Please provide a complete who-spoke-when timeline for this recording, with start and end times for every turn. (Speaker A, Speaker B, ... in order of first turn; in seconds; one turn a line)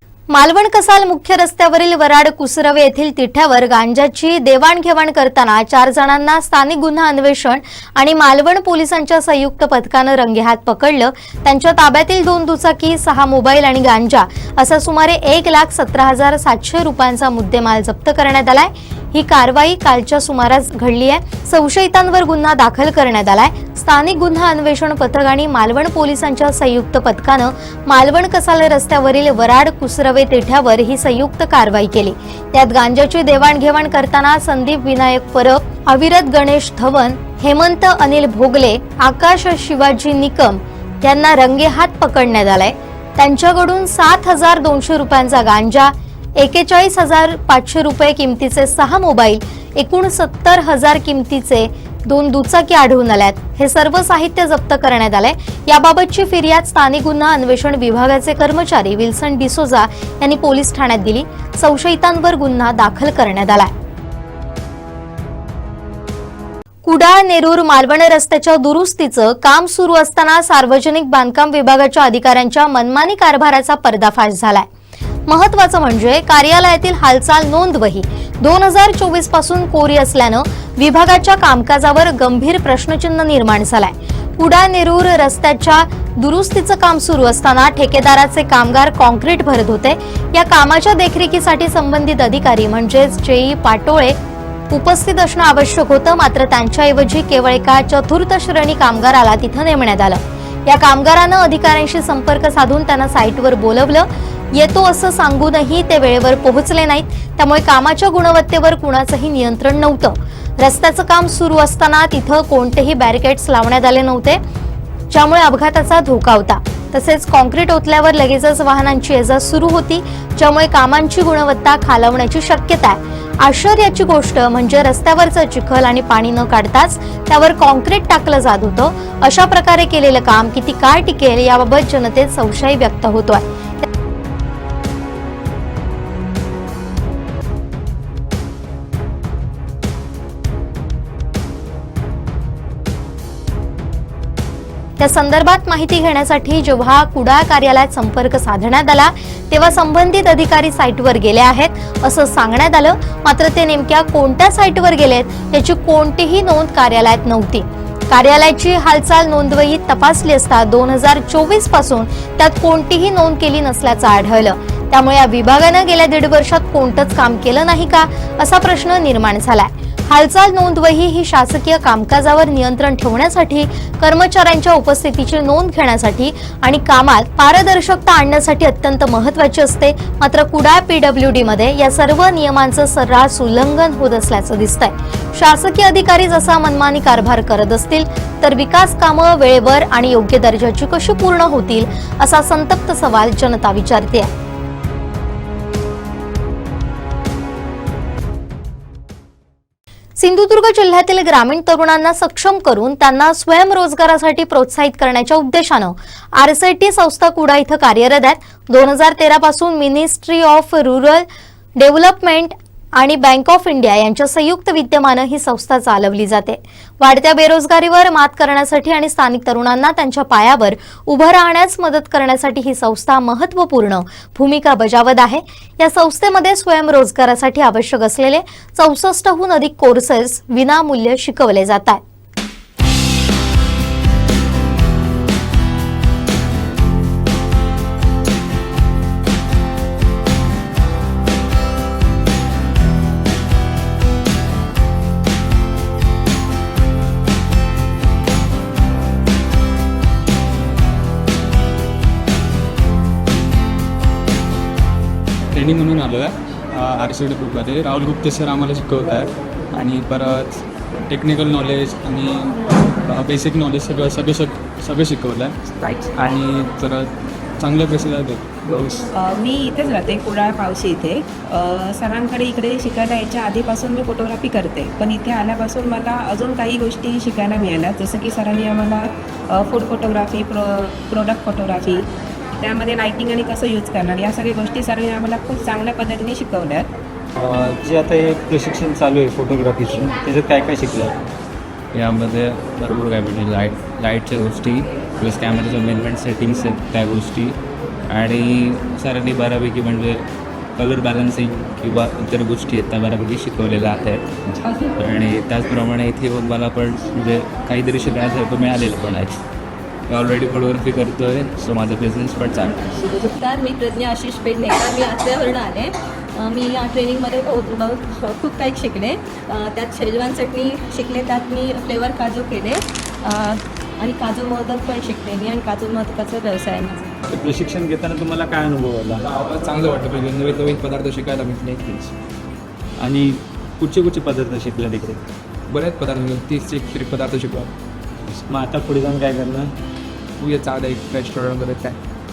Speaker A: 0.3-63.7
Speaker A: 66.8-74.7
Speaker A: 75.3-94.2
Speaker A: 94.7-114.4
Speaker A: 115.1-133.8
Speaker A: 145.0-194.3
Speaker A: 200.2-211.2
Speaker A: 211.8-232.0
Speaker B: 255.5-269.1
Speaker C: 269.1-282.0
Speaker C: 282.6-286.9
Speaker D: 287.4-291.1
Speaker E: 291.9-300.2
Speaker E: 300.8-309.4
Speaker F: 304.6-304.9
Speaker E: 310.1-312.9
Speaker F: 312.9-327.1
Speaker D: 327.3-329.2
Speaker B: 329.3-332.1
Speaker D: 333.0-335.2
Speaker B: 335.7-337.7
Speaker D: 338.3-339.7
Speaker B: 340.4-342.0